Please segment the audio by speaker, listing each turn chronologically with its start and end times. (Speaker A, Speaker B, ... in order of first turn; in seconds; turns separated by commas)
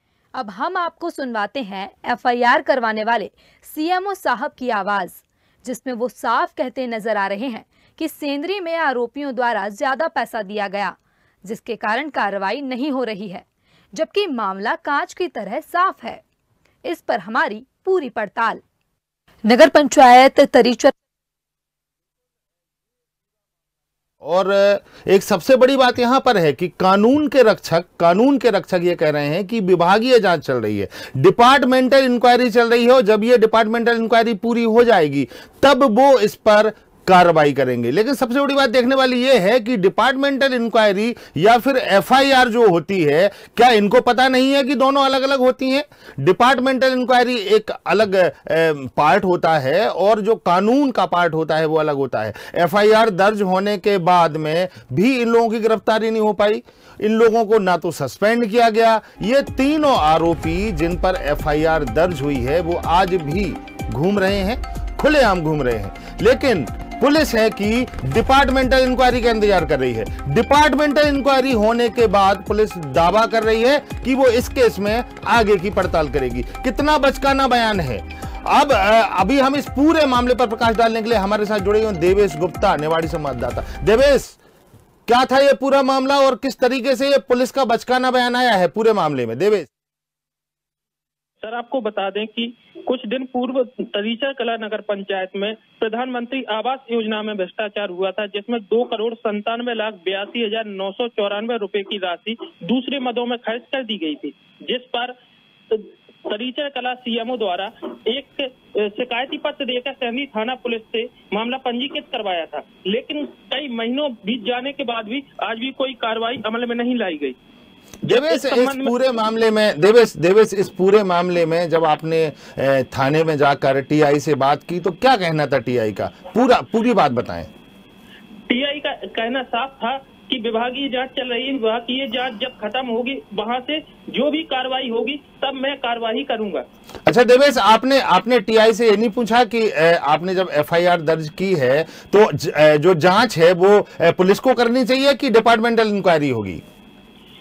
Speaker A: 0.3-16.2, Speaker A: 16.9-18.6, Speaker A: 19.4-20.9, Speaker B: 24.2-84.4, Speaker B: 85.1-89.7, Speaker C: 91.4-105.2, Speaker C: 105.7-117.4, Speaker B: 118.0-127.5, Speaker C: 118.0-119.0, Speaker C: 128.5-136.7, Speaker B: 137.1-146.6